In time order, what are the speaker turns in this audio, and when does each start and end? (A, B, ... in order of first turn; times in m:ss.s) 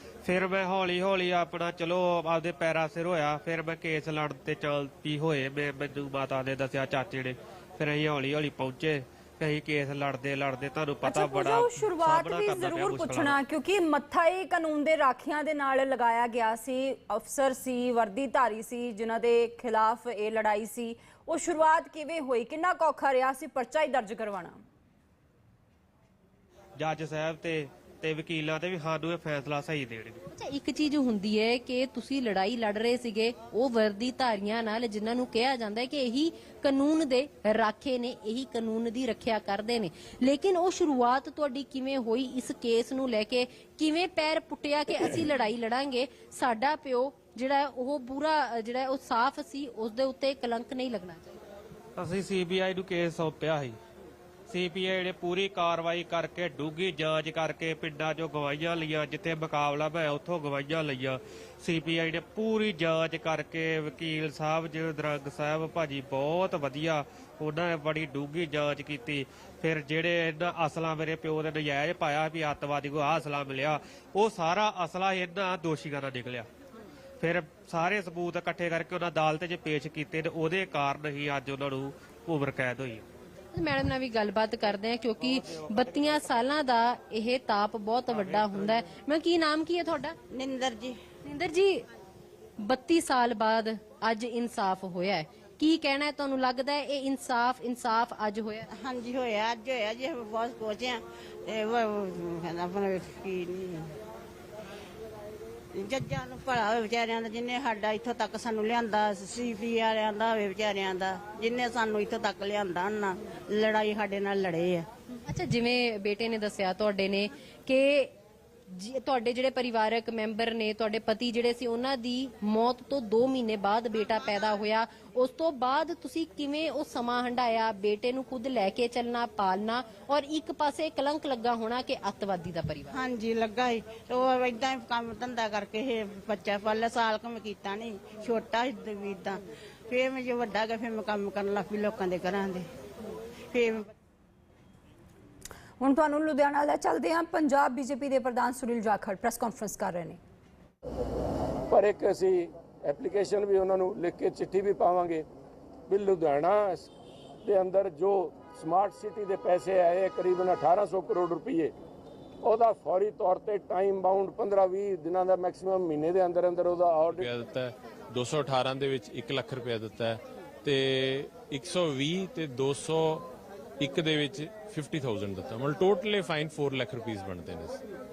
0:00.2-0:13.4 A
0:11.0-0:24.6 B
0:26.8-0:30.2 A
0:30.3-0:51.4 C
0:52.0-0:53.8 A
0:54.5-1:16.5 A
1:17.2-1:23.0 A
1:23.5-1:30.2 C
1:25.2-1:26.4 A
1:28.1-1:28.8 A
1:30.3-1:31.0 D
1:31.2-1:31.8 C
1:32.6-1:38.7 C
1:38.8-1:43.9 D
1:45.7-1:54.9 D
1:55.2-1:58.1 C
1:58.7-2:13.0 C
2:12.9-2:22.7 D
2:23.5-2:23.9 D
2:25.8-2:30.2 B
2:31.7-2:35.2 E
2:35.9-2:36.9 E
2:37.4-2:41.7 E
2:42.4-2:47.3 E
2:47.1-2:53.3 F
2:53.8-2:57.8 F